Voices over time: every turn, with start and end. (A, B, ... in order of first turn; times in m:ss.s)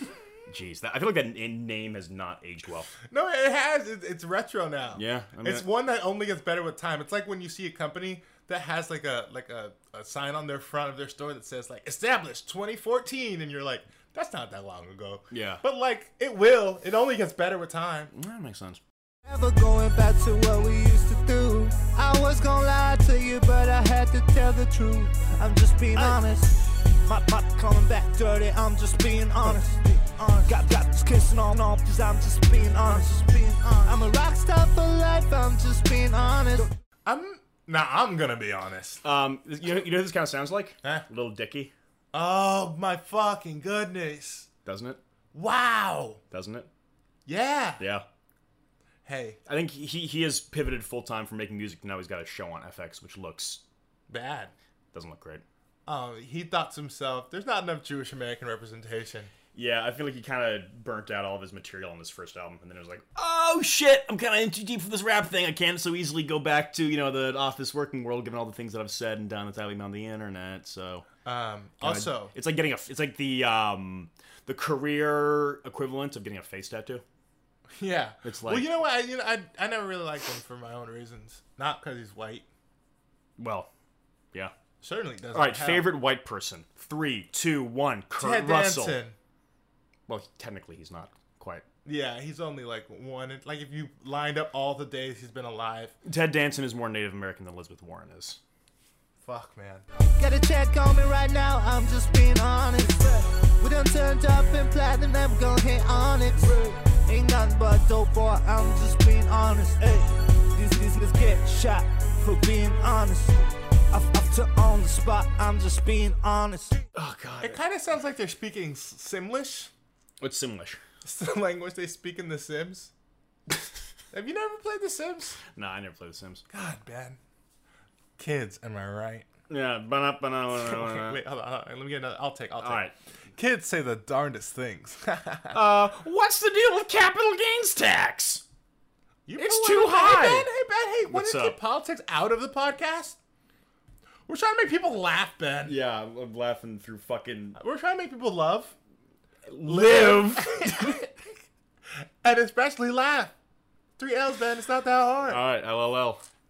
0:00.5-0:02.9 A
0:03.1-0:18.1 B
0:05.0-0:05.7 A
0:15.3-0:15.6 A
0:18.1-0:18.8 A
0:19.3-0:36.7 C
0:37.1-0:39.0 B
0:39.0-0:41.7 A
0:42.1-0:44.5 B
0:44.7-0:45.0 A
0:45.3-0:46.2 B
0:46.3-0:46.7 A
0:47.3-0:47.8 B
0:47.8-0:48.0 A
0:49.0-0:49.4 B
0:49.5-0:53.6 A
0:54.1-0:54.5 B
0:54.9-0:55.4 A
0:55.9-0:59.3 B
0:59.5-1:11.1 A
1:11.2-1:12.3 B
1:11.8-1:17.0 A
1:17.8-1:22.5 B
1:18.2-1:18.7 A
1:23.4-1:23.7 A
1:24.8-1:26.0 B
1:25.3-1:29.0 A
1:28.2-1:29.2 B
1:30.1-1:31.6 A
1:31.8-1:36.0 B
1:36.0-1:38.4 A
1:39.2-1:39.8 B
1:40.2-1:56.8 C
1:57.0-1:57.6 A
1:57.4-1:59.7 B
2:00.2-2:00.8 A
2:01.0-2:02.9 B
2:04.1-2:05.4 B
2:05.6-2:06.4 A
2:06.5-2:07.2 B
2:08.2-2:09.3 B
2:09.5-2:11.2 A
2:10.5-2:12.8 B
2:12.6-2:12.9 A
2:13.4-2:15.6 B
2:15.5-2:18.4 A
2:19.3-2:23.2 B
2:19.4-2:20.5 A
2:21.1-2:21.6 A
2:24.3-2:25.8 B
2:25.7-2:27.6 A
2:27.6-2:28.8 B
2:29.5-2:31.0 A
2:29.6-2:31.2 B
2:32.2-2:33.3 B
2:34.0-2:35.4 B
2:35.3-2:36.2 A